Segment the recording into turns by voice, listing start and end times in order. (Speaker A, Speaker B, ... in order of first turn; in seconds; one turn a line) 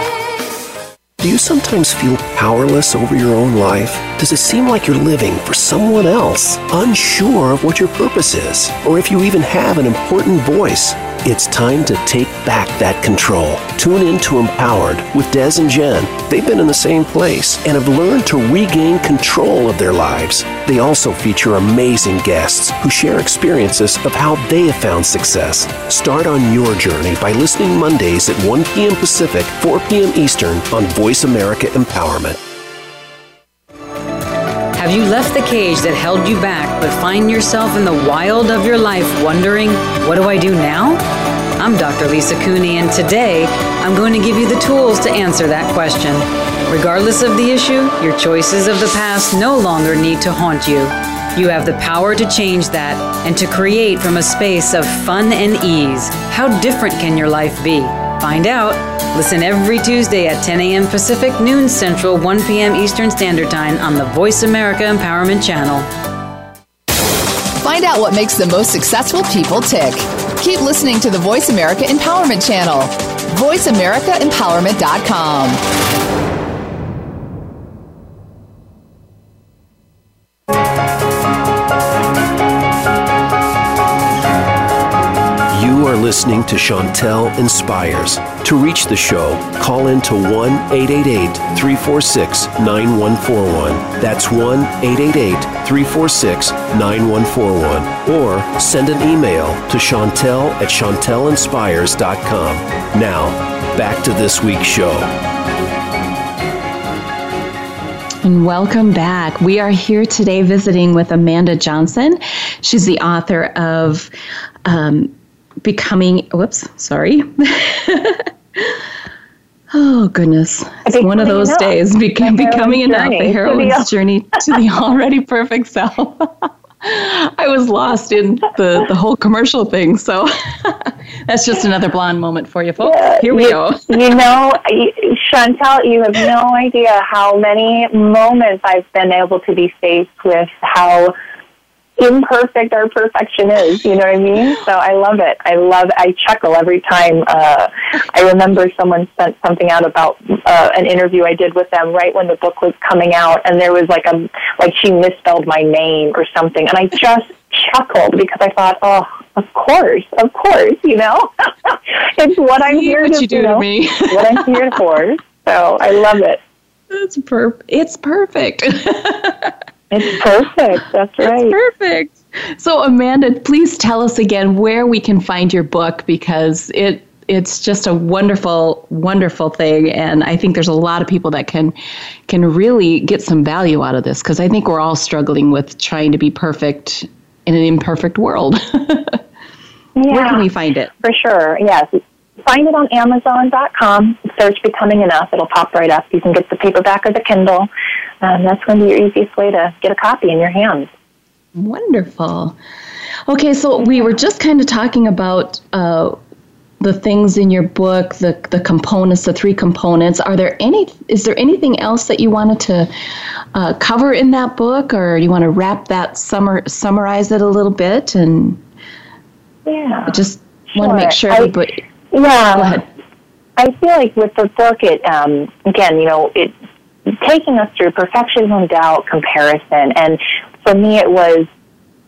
Speaker A: 1.2-32.4
Speaker B: 34.7-41.0
Speaker B: 41.6-65.9
Speaker C: 67.6-75.6
Speaker A: 85.5-105.1
Speaker D: 108.2-114.1
Speaker D: 114.6-118.8
Speaker D: 119.7-134.0
Speaker E: 120.8-123.9
Speaker E: 132.8-141.1
Speaker E: 142.0-166.4
Speaker D: 162.7-164.7
Speaker D: 166.9-169.5
Speaker E: 169.9-171.6
Speaker D: 171.2-181.8
Speaker D: 182.3-189.2
Speaker E: 189.9-190.5
Speaker D: 190.1-190.9
Speaker E: 191.0-197.7
Speaker E: 198.2-200.9
Speaker D: 201.5-202.6
Speaker D: 203.3-206.2
Speaker D: 206.8-212.9
Speaker D: 213.5-218.6
Speaker E: 219.7-220.2
Speaker D: 220.1-221.8
Speaker E: 220.7-221.5
Speaker E: 222.1-222.8
Speaker D: 222.5-222.9
Speaker E: 223.6-226.5
Speaker E: 227.1-231.5